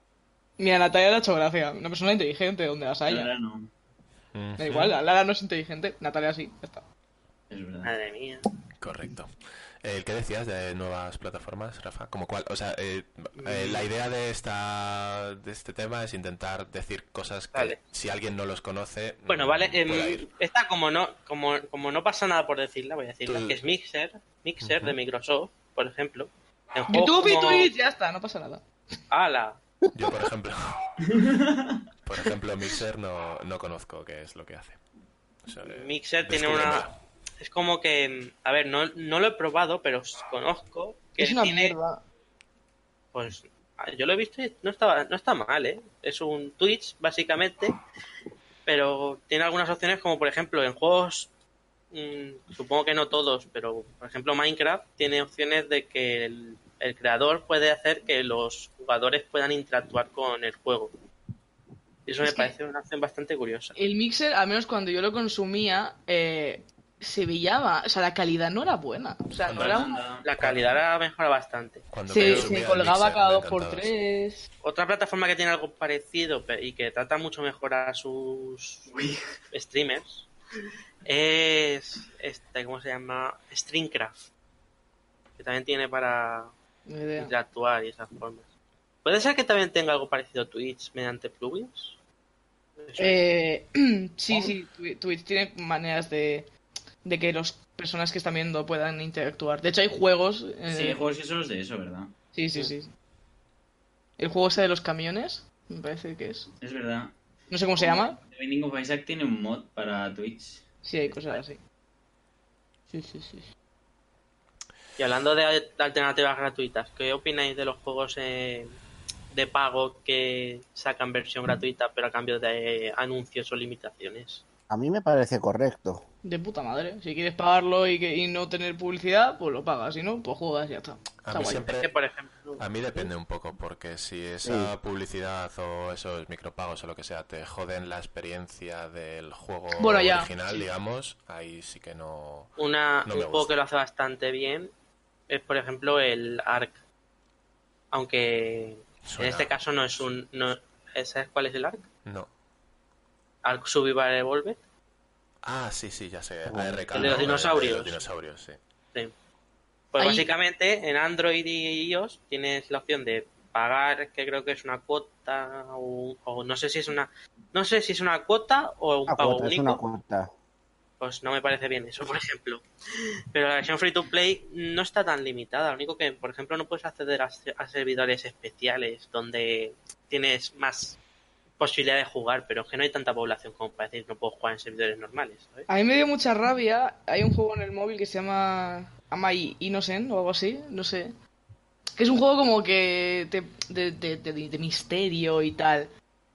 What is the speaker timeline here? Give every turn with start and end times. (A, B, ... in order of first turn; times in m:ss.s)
0:00.6-0:03.3 A
0:03.1-0:03.7 B
0:04.3-0:05.0 C
0:04.6-0:06.8 A
0:07.5-0:07.9 B
0:07.8-0:08.4 D
0:08.8-0:20.3 C
0:13.4-0:13.8 D
0:17.5-0:17.8 D
0:19.3-0:27.7 D
0:23.2-0:23.6 C
0:24.6-0:25.0 C
0:26.9-0:28.6 A
0:29.1-0:29.6 D
0:29.9-0:30.9 C
0:31.1-0:31.8 B
0:32.0-0:34.8 C
0:35.4-0:37.0 C
0:35.7-0:36.9 D
0:37.4-0:41.8 D
0:41.2-0:42.0 A
0:43.1-0:47.8 D
0:48.6-0:51.3 D
0:51.9-1:00.9 D
1:02.0-1:03.8 D
1:02.2-1:02.5 A
1:03.8-1:09.9 A
1:09.5-1:10.3 B
1:10.2-1:12.5 D
1:10.4-1:10.8 C
1:11.9-1:13.9 C
1:12.1-1:14.5 A
1:14.6-1:18.8 D
1:18.9-1:19.2 B
1:19.5-1:20.3 D
1:21.0-1:24.2 D
1:25.4-1:26.5 D
1:26.9-1:27.3 A
1:27.2-1:28.4 D
1:29.0-1:32.0 D
1:32.8-1:33.2 D
1:33.0-1:36.5 A
1:37.0-1:41.0 A
1:40.7-1:42.1 B
1:42.3-1:42.9 A
1:44.2-1:46.5 A
1:46.6-1:47.1 B
1:47.5-1:48.2 A
1:47.8-1:50.6 B
1:50.8-1:51.6 A
1:52.9-1:53.5 A
1:55.0-1:58.8 D
1:59.3-2:04.4 D
2:04.7-2:06.0 E
2:06.2-2:11.6 A
2:11.2-2:11.9 C
2:11.8-2:13.1 D
2:12.6-2:22.5 C
2:14.4-2:14.7 E
2:19.8-2:20.6 A
2:22.6-2:24.7 D
2:23.0-2:23.5 C
2:25.3-2:26.8 D
2:27.9-2:31.9 D
2:29.0-2:30.0 C
2:32.0-2:32.3 C
2:33.4-2:34.6 D
2:35.4-2:38.6 C
2:36.5-2:37.2 E
2:36.9-2:38.0 D
2:39.9-2:49.8 D
2:40.0-2:40.3 A
2:49.1-2:50.3 E
2:51.0-2:52.6 D
2:53.3-3:01.0 D
3:01.6-3:05.7 D
3:05.7-3:11.1 A
3:12.0-3:15.9 A